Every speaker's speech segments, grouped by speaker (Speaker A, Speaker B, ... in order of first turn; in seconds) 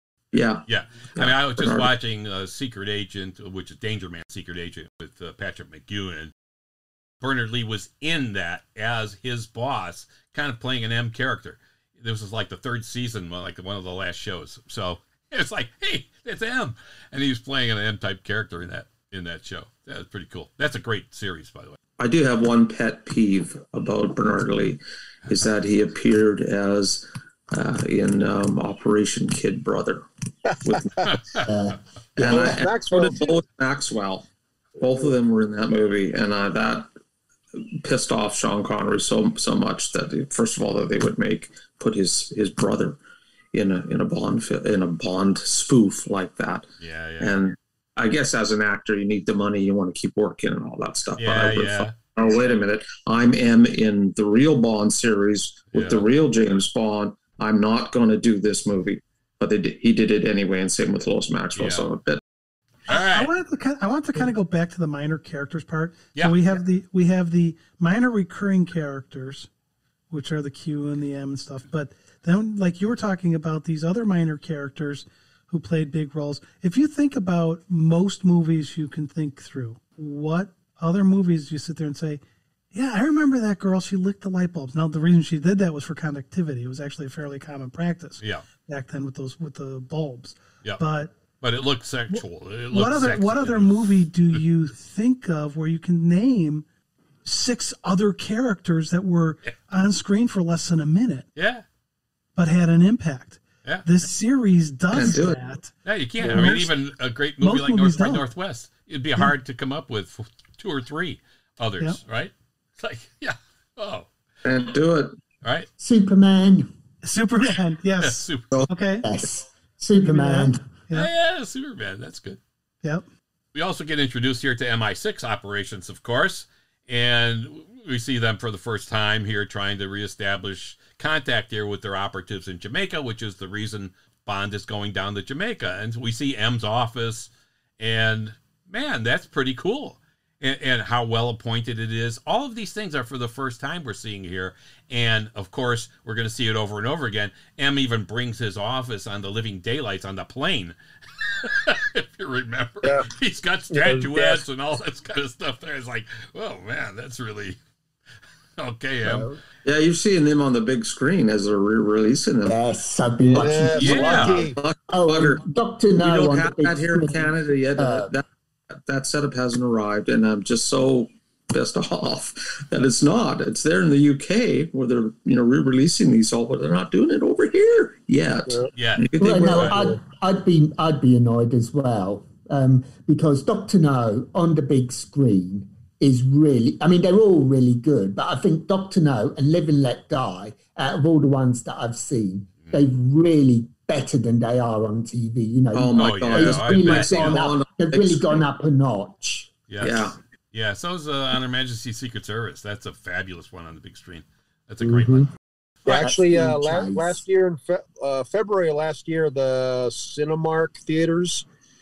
Speaker A: 0.3-0.7, 1.2-1.9, 22.0-30.1, 30.6-31.1, 32.2-34.3, 34.8-36.9, 37.6-43.0, 43.5-62.2, 104.9-105.4, 114.4-115.2, 159.7-162.6, 163.4-165.4, 166.0-179.9, 195.7-198.4, 199.8-200.2
Speaker B: 0.7-6.3, 7.2-21.8, 31.0-31.5, 46.8-47.3, 51.2-52.0, 55.7-56.0, 61.6-61.9, 62.9-63.3, 91.4-94.0, 101.4-101.6, 105.8-114.1, 115.4-115.7, 118.0-118.5, 120.9-122.4, 123.5-157.6, 158.6-159.3, 163.8-164.4, 178.7-179.8, 195.9-197.4, 199.7-205.3
Speaker C: 30.5-31.1, 32.2-33.4, 106.2-106.5, 152.8-153.1, 153.7-154.4, 163.3-164.6, 204.8-205.3, 205.8-211.5
Speaker D: 31.4-32.5, 115.8-116.7, 119.0-120.6, 159.0-159.4, 162.4-168.1, 179.2-199.5, 205.9-207.2
Speaker E: 62.9-69.5, 70.1-82.2, 82.7-91.1, 92.1-96.7, 97.2-101.3, 102.4-105.7, 106.2-106.7, 107.4-108.2, 117.0-119.1, 120.0-121.1